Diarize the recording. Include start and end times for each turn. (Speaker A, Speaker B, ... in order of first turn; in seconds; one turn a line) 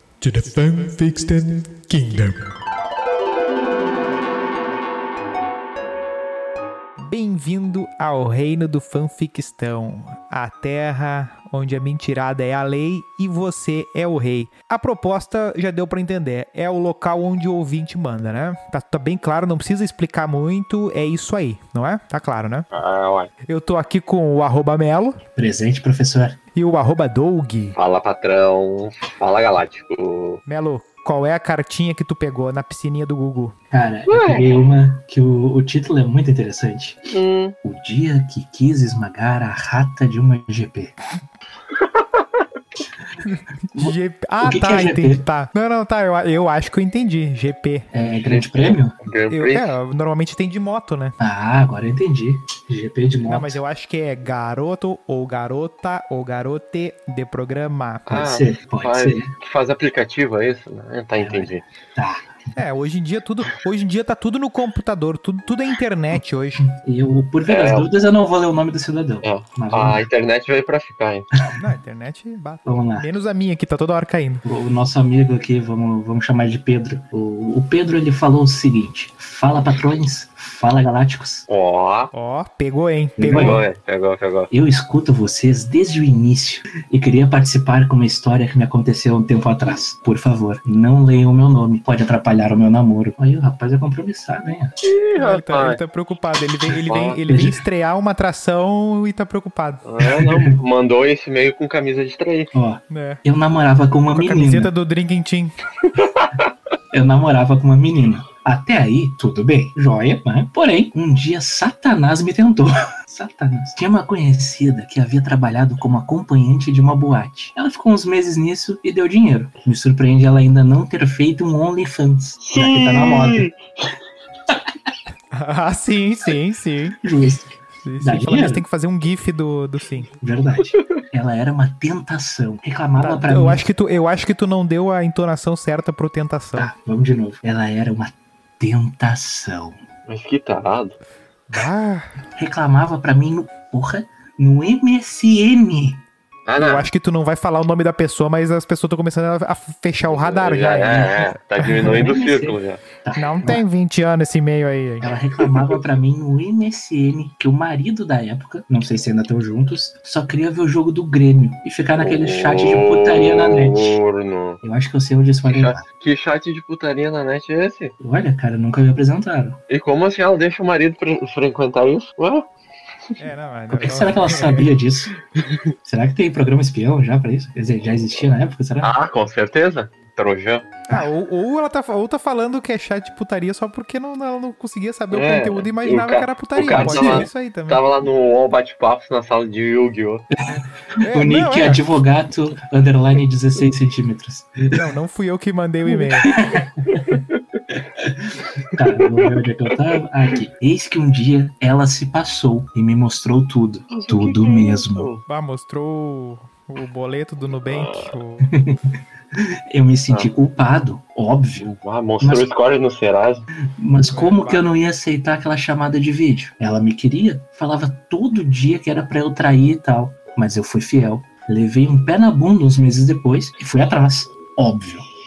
Speaker A: 0.2-2.4
Speaker A: 7.0-22.7
Speaker B: 22.7-23.3
Speaker A: 23.5-25.2
Speaker C: 25.4-26.4
Speaker A: 26.5-27.8
Speaker B: 27.8-30.4
Speaker A: 30.5-33.5
Speaker C: 33.7-40.9
Speaker B: 34.1-34.7
Speaker B: 37.1-37.5
Speaker B: 41.7-42.4
Speaker A: 43.2-47.9
Speaker C: 43.8-45.2
Speaker C: 47.9-48.9
Speaker B: 48.0-49.8
Speaker A: 49.3-51.1
Speaker C: 51.2-53.6
Speaker A: 53.3-58.2
Speaker B: 58.1-61.6
Speaker C: 58.1-59.3
Speaker C: 61.2-62.3
Speaker A: 62.5-66.7
Speaker C: 66.7-70.1
Speaker B: 67.5-67.9
Speaker B: 69.2-71.3
Speaker A: 71.5-74.4
Speaker C: 72.6-73.0
Speaker C: 74.4-81.5
Speaker B: 81.5-82.1
Speaker A: 82.1-83.6
Speaker C: 83.2-83.6
Speaker B: 83.3-84.5
Speaker C: 84.5-94.7
Speaker B: 94.8-95.8
Speaker A: 95.2-99.8
Speaker B: 96.7-97.2
Speaker C: 97.3-97.6
Speaker B: 99.8-102.5
Speaker C: 100.0-100.5
Speaker C: 102.5-104.7
Speaker A: 102.9-103.2
Speaker A: 104.1-105.5
Speaker B: 105.9-106.5
Speaker C: 106.9-123.5
Speaker B: 122.4-123.6
Speaker A: 125.3-127.0
Speaker C: 127.0-128.6
Speaker A: 127.8-130.1
Speaker C: 130.1-133.7
Speaker A: 133.0-136.7
Speaker C: 136.6-139.8
Speaker B: 140.1-141.0
Speaker A: 141.5-142.1
Speaker C: 142.3-146.0
Speaker B: 146.5-146.9
Speaker A: 146.6-152.1
Speaker B: 150.1-152.8
Speaker C: 151.8-153.6
Speaker A: 153.2-155.1
Speaker C: 155.0-163.9
Speaker B: 162.0-164.6
Speaker C: 164.6-165.8
Speaker B: 165.4-167.9
Speaker C: 168.0-169.6
Speaker B: 169.7-172.5
Speaker A: 173.2-174.7
Speaker C: 173.7-175.1
Speaker C: 175.8-178.9
Speaker B: 178.8-180.7
Speaker A: 180.9-187.8
Speaker B: 185.1-190.2
Speaker C: 186.8-187.3
Speaker C: 190.5-194.8
Speaker A: 191.0-191.8
Speaker A: 194.7-196.3
Speaker C: 196.2-197.2
Speaker B: 196.9-197.4
Speaker C: 198.0-205.1
Speaker B: 198.7-199.8
Speaker B: 203.9-205.2
Speaker A: 205.3-208.5
Speaker B: 207.6-208.1
Speaker C: 208.5-211.7
Speaker B: 211.6-213.4
Speaker C: 212.2-212.5
Speaker C: 213.7-225.1
Speaker A: 214.1-214.7